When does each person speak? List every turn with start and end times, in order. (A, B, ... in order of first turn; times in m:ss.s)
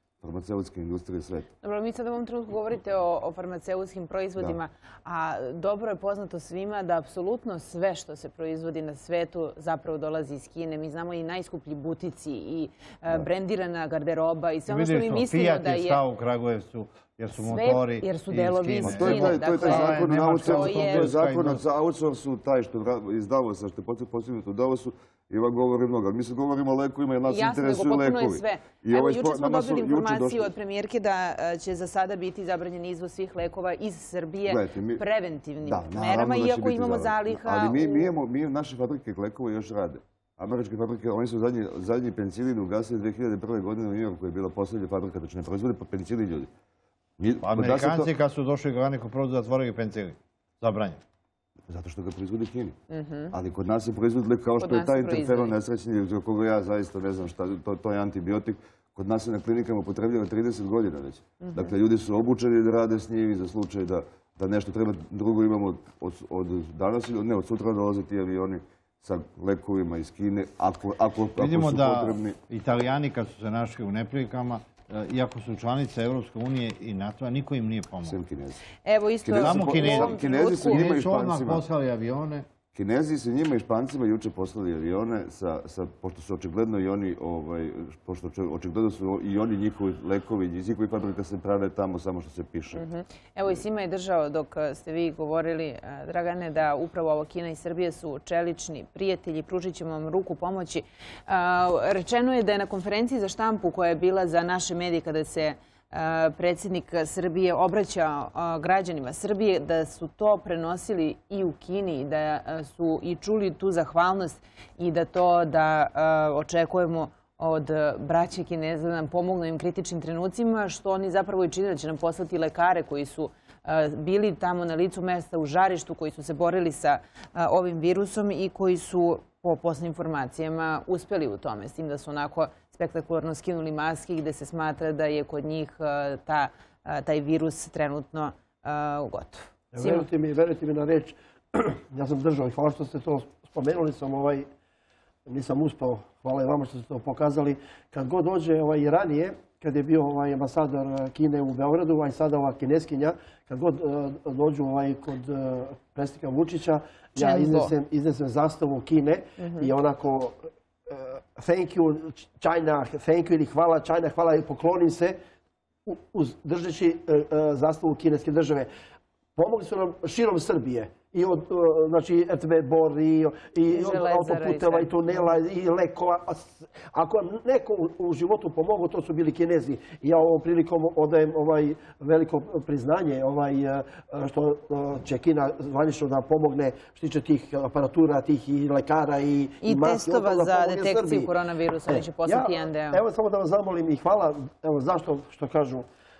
0:00.2-0:01.5 A
0:01.6-0:16.0 B
0:14.7-0:21.6 C
0:17.4-0:21.1 B
0:18.8-0:30.5 A
0:27.3-0:38.1 B
0:34.4-0:35.0 A
0:35.6-0:46.5 A
0:47.2-0:48.1 A
0:47.4-0:51.0 C
0:51.7-0:52.8 A
0:52.9-0:53.3 B
0:53.3-1:12.4 A
0:54.6-0:55.5 B
1:01.4-1:01.7 B
1:11.4-1:18.2 C
1:18.0-1:18.6 A
1:18.8-1:20.8 B
1:19.2-1:21.6 A
1:19.3-1:22.4 C
1:22.7-1:32.8 A
1:32.7-2:20.0 B
2:19.7-2:24.4 D
2:25.3-2:40.4 D
2:37.2-2:37.7 B
2:39.4-2:39.7 B
2:40.9-2:45.2 D
2:45.8-2:48.7 D
2:49.4-3:11.3 D
2:53.7-2:55.2 B
3:09.6-3:13.0 B
3:11.9-3:15.8 D